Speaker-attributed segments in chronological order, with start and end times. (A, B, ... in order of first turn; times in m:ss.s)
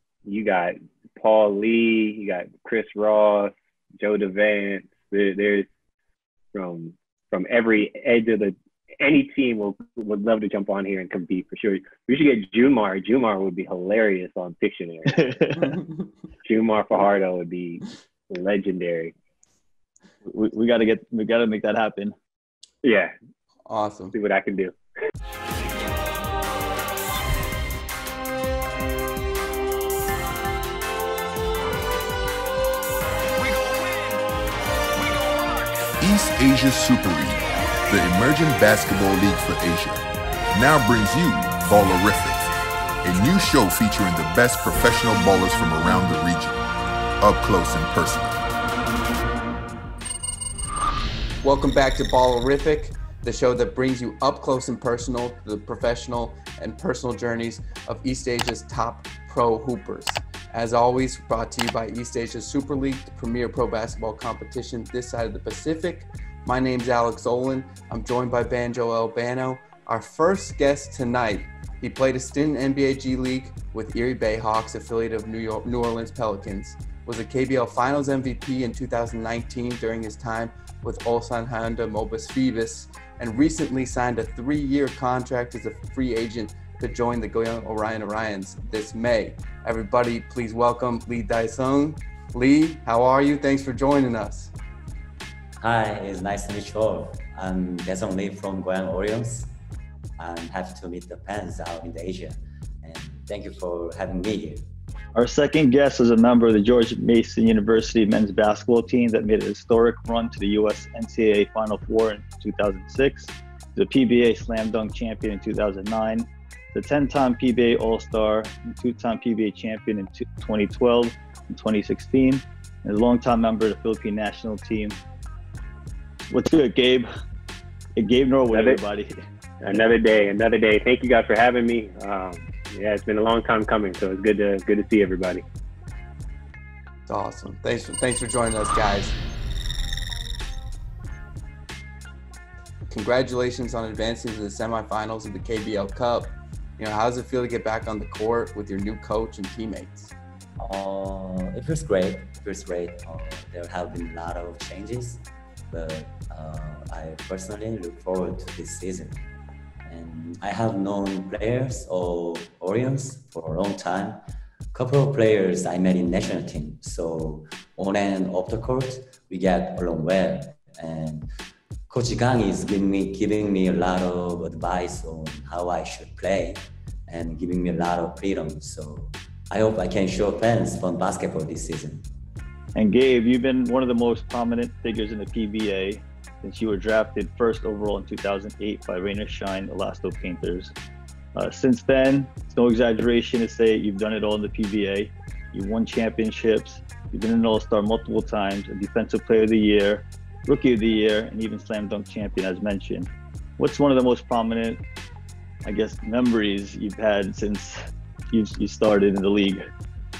0:00.2-0:05.7 A
0:06.5-0:15.2 A
0:15.1-0:15.8 B
0:15.6-0:16.0 C
0:16.4-0:19.1 A
0:20.2-0:22.1 B
0:22.8-0:23.1 A
0:23.7-0:24.1 C
0:24.1-0:24.7 A
0:35.0-0:42.5 D
0:43.0-0:46.6 D
0:47.2-0:48.4 D
0:51.4-1:34.5 C
1:35.6-1:39.5 E
1:40.2-1:44.6 E
1:45.1-2:05.0 B
2:06.3-2:07.0 B
2:08.0-2:09.1 B
2:08.5-2:08.8 A
2:09.6-2:15.4 A
2:17.1-2:19.1 C
2:22.9-2:30.1 C
2:30.6-2:39.2 E
2:39.8-2:44.2 E
2:44.7-2:51.3 E
2:51.9-3:02.1 E
3:02.7-3:10.7 B
3:11.4-3:24.8 B
3:25.6-3:27.8 B
3:28.3-3:29.6 B